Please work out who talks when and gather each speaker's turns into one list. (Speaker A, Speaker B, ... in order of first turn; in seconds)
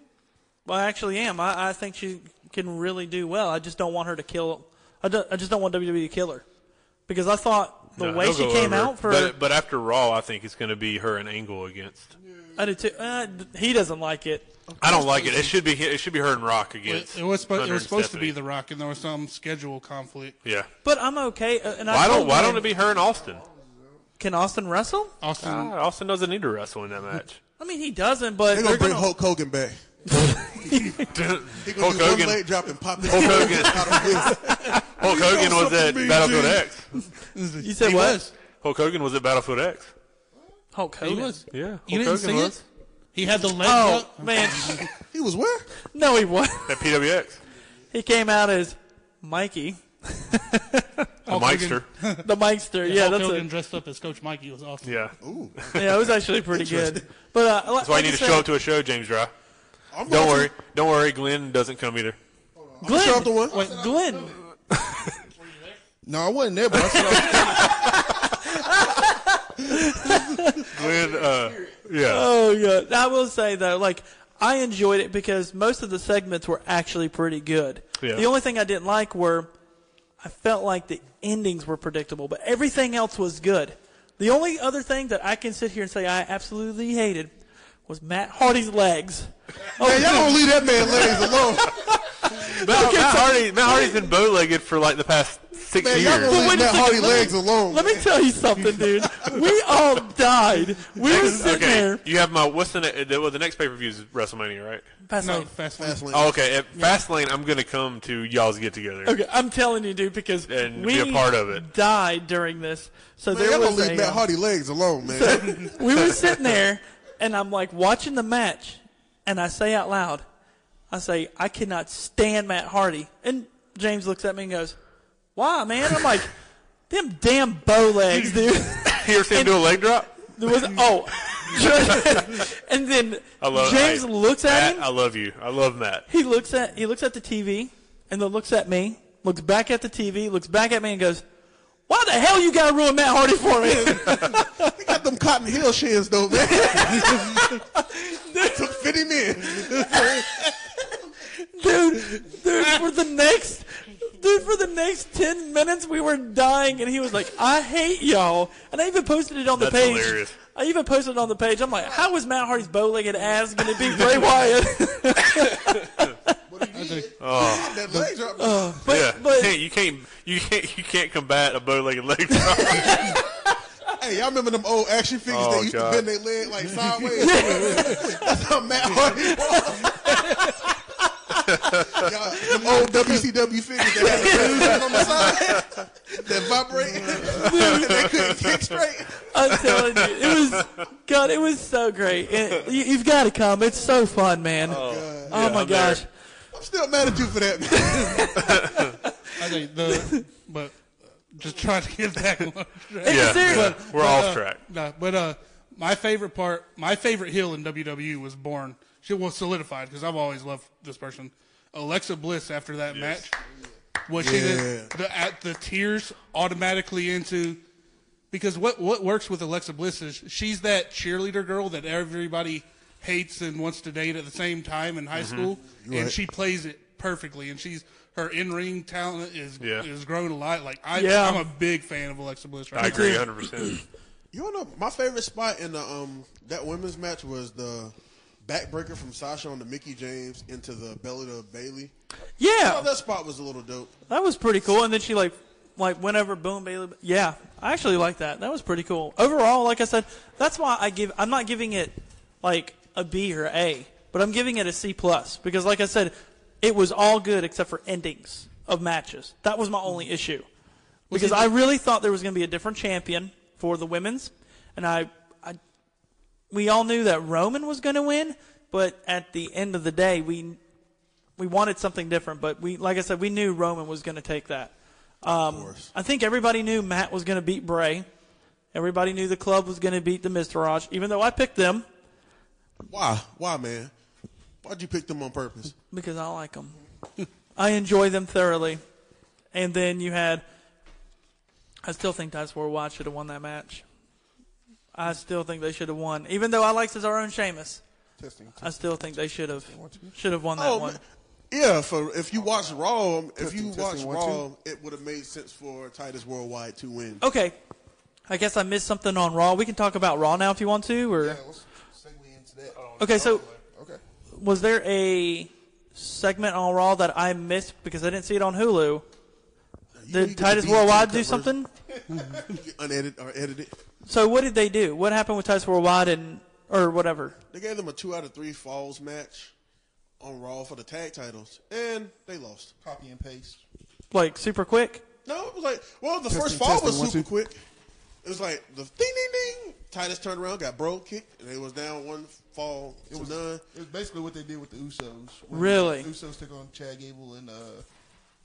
Speaker A: 0.6-6.4, 7.1-9.3, 12.6-14.5, 20.8-22.7, 24.2-25.1, 27.6-29.1, 30.1-31.1, 37.6-38.2, 40.7-41.4, 43.5-44.9, 45.9-46.9, 47.9-50.9, 52.2-53.5, 55.7-58.5, 62.8-64.4, 68.2-70.6, 72.0-79.5, 80.2-87.3, 87.9-91.4, 92.2-94.0, 96.2-102.0, 105.0-105.5, 109.0-114.2, 115.0-120.2, 120.9-124.8, 125.3-126.3, 126.9-134.9, 136.1-141.2, 141.9-144.7, 146.5-148.9, 149.6-150.6, 151.2-166.4, 168.4-169.6, 172.6-173.2, 177.2-178.3, 179.2-180.7, 182.4-182.9, 183.9-185.2, 187.4-188.0, 189.3-196.1, 197.7-200.2, 203.0-203.8, 230.9-231.4, 232.8-233.8, 242.4-242.9, 244.1-260.5, 261.1-265.6, 266.5-270.6, 271.4-278.1, 278.7-281.9, 285.9-286.8, 287.6-288.8, 289.5-290.4, 291.8-293.8, 294.9-297.8, 298.6-301.0, 307.2-307.6, 308.3-311.4, 313.0-313.4, 314.3-319.0, 320.1-321.7, 324.0-327.4, 334.1-335.0, 345.5-346.1
Speaker B: 8.0-12.1, 14.8-18.4, 20.4-20.7, 21.9-23.4, 25.4-27.4, 31.0-32.4, 33.0-36.9, 38.6-39.9, 41.5-42.6, 46.6-47.4, 51.3-51.9, 54.8-55.8, 57.8-59.3, 60.0-62.2, 64.8-65.1, 66.9-68.2, 70.7-72.3, 78.0-78.2, 92.2-96.4, 101.1-104.8, 106.1-109.1, 110.5-111.7, 128.8-130.3, 131.2-132.3, 133.4-136.1, 159.5-160.3, 163.9-164.1, 165.4-166.0, 167.2-167.8, 168.8-173.2, 175.3-176.1, 181.5-182.0, 187.5-188.5, 189.5-190.6, 194.7-196.0, 198.5-198.9, 203.1-204.6, 212.9-213.2, 225.1-225.5, 229.6-229.9, 232.7-233.8, 312.7-313.6
Speaker C: 12.2-13.0, 21.7-24.1, 30.2-31.1, 62.5-64.6, 66.0-68.3, 69.6-71.8, 96.0-97.2, 166.4-168.1, 176.6-178.3, 184.0-185.6, 186.9-187.4, 298.2-300.2, 302.4-302.8, 303.4-304.4, 311.1-314.0, 322.0-322.5, 332.8-333.6, 336.3-337.3, 343.1-347.9
Speaker D: 14.7-15.6, 28.5-29.8, 31.6-36.7, 44.9-45.7, 55.2-57.0, 59.9-60.5, 62.8-63.6, 89.7-91.9, 95.8-98.1, 105.8-106.4, 113.3-115.8, 143.6-147.6, 148.4-150.5, 167.3-169.0, 174.0-180.2, 181.8-189.3, 194.6-195.5, 196.5-198.5, 214.1-214.9, 225.8-226.2, 234.3-241.9, 242.6-243.9, 275.3-275.9, 282.9-283.9, 284.6-285.7, 300.6-307.2, 319.9-321.6, 322.5-323.7, 327.5-329.5, 330.2-332.7, 335.2-337.6, 338.2-343.6
Speaker E: 16.9-20.4, 25.2-25.7, 37.3-38.3, 41.0-44.9, 51.2-52.3, 52.8-55.1, 65.3-65.8, 105.2-106.1, 166.7-167.1, 199.4-213.3, 214.1-217.6, 218.3-233.2, 261.1-261.5